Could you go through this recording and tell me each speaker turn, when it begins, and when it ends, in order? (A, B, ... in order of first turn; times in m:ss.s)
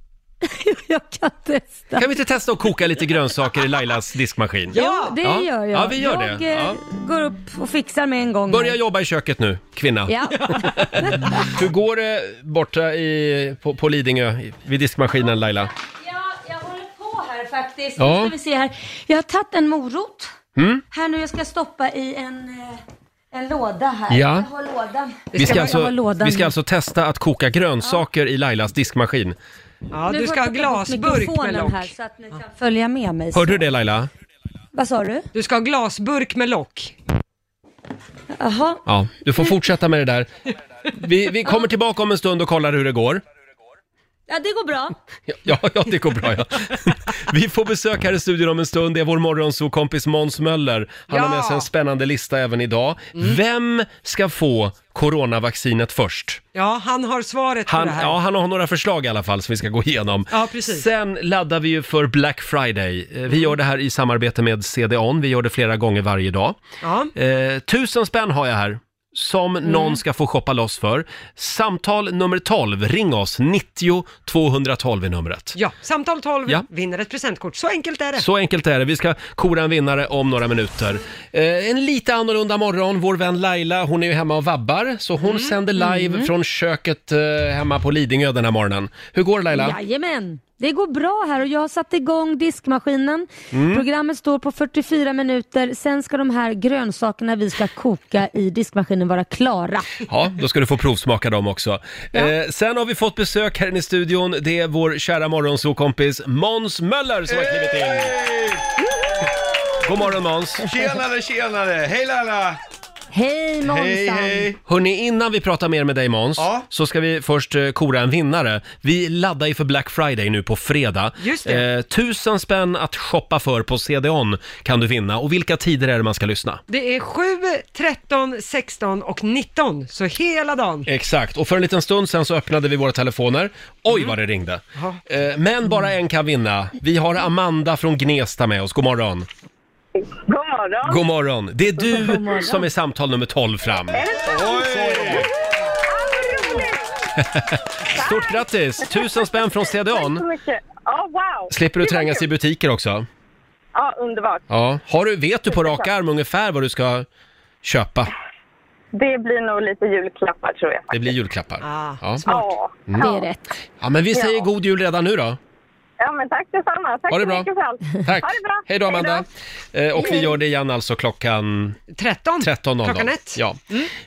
0:00.4-0:02.1 A
0:02.0-0:06.8 B
0:04.7-0:05.2 C
0:04.7-0:08.8 A
0:08.5-0:15.7 B
0:10.1-0:11.6 A
0:16.0-0:20.3 A
0:18.0-0:18.3 B
0:20.6-0:20.8 B
0:20.9-0:22.8 A
0:23.3-0:26.5 A
0:24.1-0:24.5 B
0:25.3-0:29.4 B
0:25.4-0:25.8 C
0:29.9-0:31.9 C
0:30.1-0:33.6 A
0:33.3-0:34.1 B
0:34.7-0:35.3 A
0:35.3-0:37.0 C
0:38.3-0:38.8 A
0:38.8-0:40.3 B
0:40.9-0:43.2 B
0:44.3-0:45.0 A
0:45.3-0:56.4 B
0:51.1-0:51.7 C
0:56.5-0:58.2 C
0:57.7-1:06.6 B
1:00.3-1:00.8 C
1:06.8-1:07.1 C
1:07.1-1:15.6 B
1:15.5-1:18.3 C
1:18.2-1:29.8 B
1:25.2-1:25.6 C
1:25.8-1:26.3 A
1:29.5-1:39.9 A
1:33.5-1:33.8 B
1:40.1-1:48.1 B
1:47.3-1:48.6 D
1:49.8-1:50.7 B
1:50.6-1:52.6 D
1:53.1-1:54.5 A
1:53.6-1:54.6 D
1:54.6-2:06.6 B
1:56.4-1:56.6 D
2:01.2-2:01.6 C
2:06.7-2:10.9 C
2:10.8-2:19.2 B
2:13.9-2:14.1 C
2:19.9-2:21.0 E
2:20.8-2:24.0 B
2:21.9-2:22.7 A
2:23.9-2:25.2 E
2:24.2-2:25.3 D
2:25.9-2:26.8 E
2:27.2-2:30.3 B
2:28.0-2:32.2 E
2:31.5-2:33.1 B
2:33.7-2:34.4 E
2:34.5-2:37.0 B
2:35.5-2:35.9 E
2:37.6-2:38.1 B
2:38.9-2:41.1 E
2:40.9-2:42.2 B
2:41.6-2:42.5 C
2:42.2-2:42.7 E
2:42.9-2:43.2 B
2:43.0-2:43.4 A
2:43.8-2:45.4 B
2:44.1-2:44.4 E
2:46.0-2:49.2 E
2:47.1-2:47.5 B
2:48.0-2:51.8 B
2:51.9-2:53.8 C
2:52.4-2:53.6 B